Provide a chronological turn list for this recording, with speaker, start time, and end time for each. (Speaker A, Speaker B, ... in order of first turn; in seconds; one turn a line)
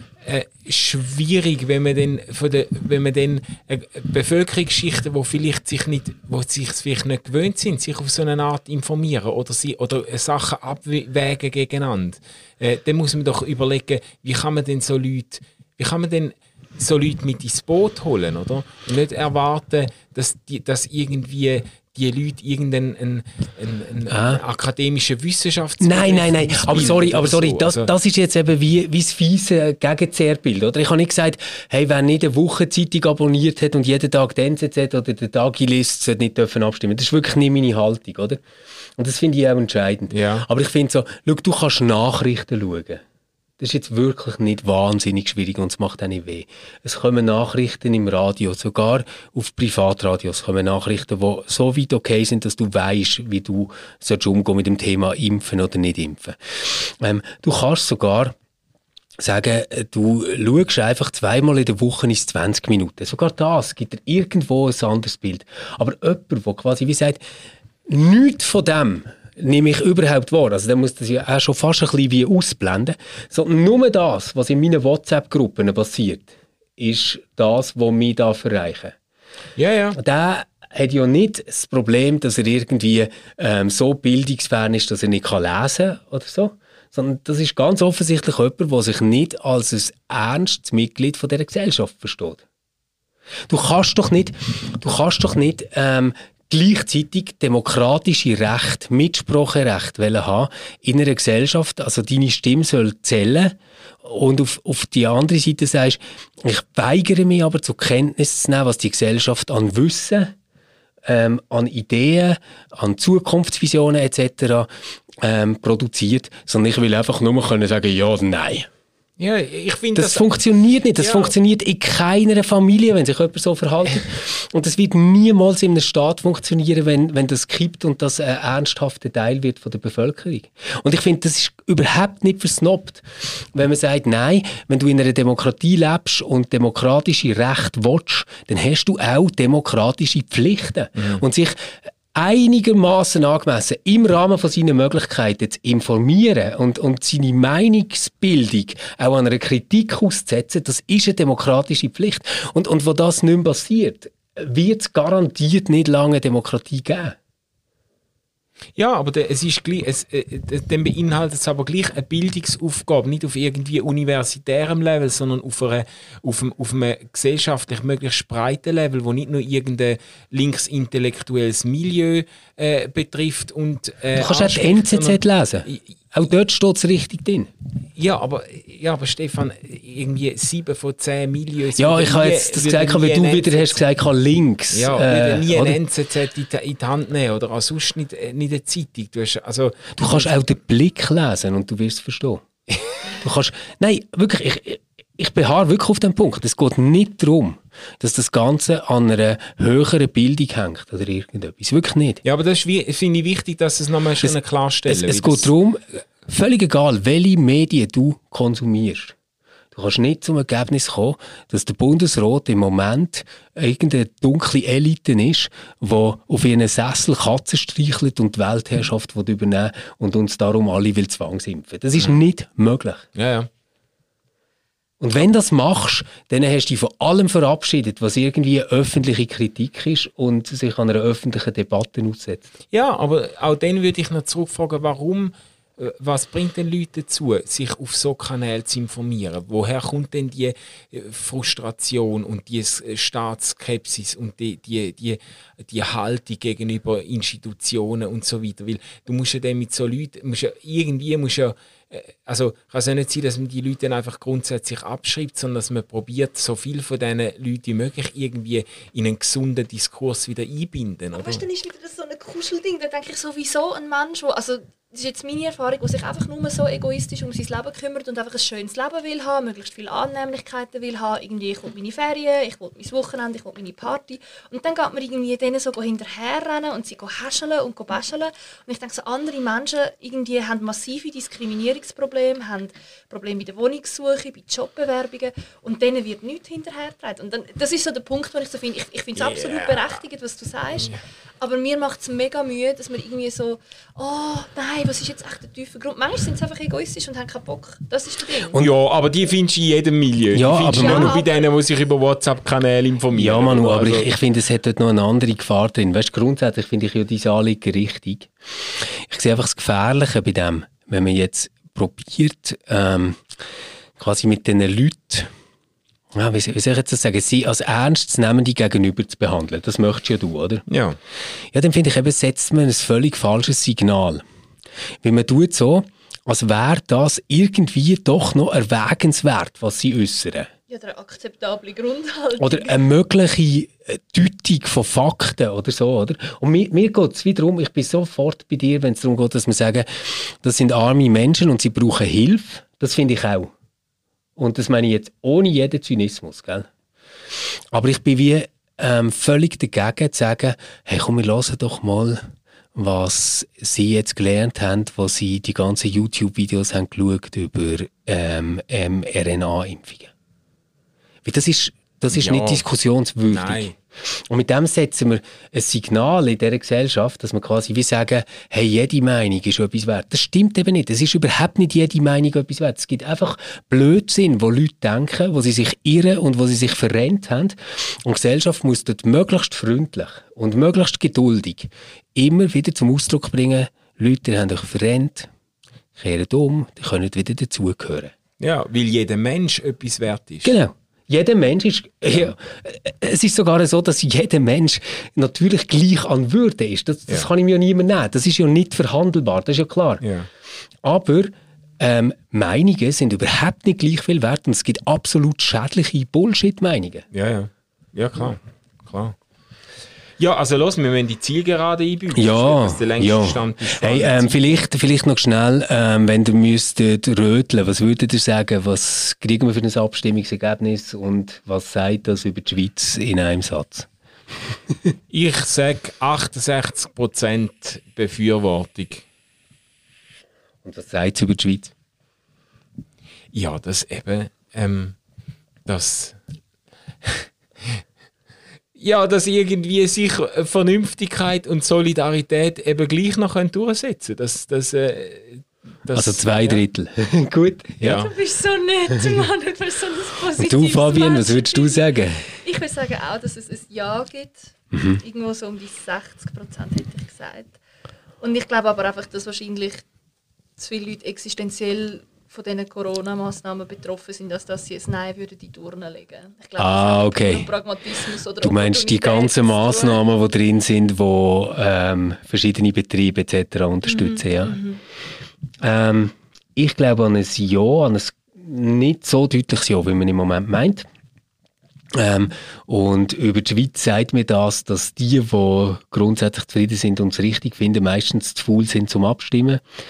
Speaker A: 0.2-27.9
Speaker B: 24.1-24.4
Speaker B: 25.8-38.4
Speaker B: 39.0-43.0
Speaker A: 40.1-40.5
Speaker B: 43.6-58.3
Speaker B: 59.2-67.2
Speaker B: 67.9-79.0
Speaker A: 79.6-80.0
Speaker B: 80.0-92.4
Speaker B: 93.5-110.3
Speaker B: 111.1-118.7
Speaker A: 119.2-120.3
Speaker B: 119.9-157.2
Speaker A: 121.0-121.3
Speaker A: 158.8-175.8
Speaker B: 174.2-177.5
Speaker A: 178.0-183.8
Speaker B: 181.8-185.8
Speaker A: 184.7-190.4
Speaker B: 190.0-202.2
Speaker A: 202.2-205.5
Speaker B: 204.9-209.2
Speaker B: 209.7-223.1
Speaker A: 223.2-223.5
Speaker B: 225.0-232.5
Speaker A: 232.7-261.4
Speaker C: 261.1-298.6
Speaker A: 289.2-289.9
Speaker A: 298.6-304.1
Speaker B: 300.3-301.2
Speaker C: 300.8-301.4
Speaker B: 303.1-313.3
Speaker B: 314.0-315.3
Speaker B: 316.1-320.6
Speaker A: 320.7-321.0
Speaker B: 321.5-324.2
Speaker B: 325.0-330.5
Speaker C: 330.7-332.9
Speaker B: 332.4-343.5
Speaker B: 344.4-346.7
Speaker B: 347.7-360.1
Speaker B: 361.2-385.3
Speaker A: 362.1-362.7
Speaker A: 363.2-363.8
Speaker B: 386.0-388.1
Speaker A: 388.4-390.6
Speaker B: 390.4-400.0
Speaker A: 400.0-400.3
Speaker B: 400.8-407.0
Speaker A: 407.1-409.1
Speaker A: 410.2-414.6
Speaker B: 412.1-423.9
Speaker B: 424.4-424.9
Speaker A: 425.1-429.1
Speaker B: 430.6-431.7
Speaker A: 433.3-435.0
Speaker A: 435.7-436.2
Speaker A: 437.0-437.8
Speaker A: 438.8-446.6
Speaker B: 445.9-448.0
Speaker A: 447.8-448.1
Speaker C: 447.8-457.6
Speaker B: 450.4-452.3
Speaker B: 454.7-455.0
Speaker C: 458.2-459.9
Speaker C: 460.6-470.0
Speaker B: 466.6-467.5
Speaker B: 468.4-474.6
Speaker C: 473.9-474.8
Speaker B: 475.6-480.9
Speaker B: 481.9-489.6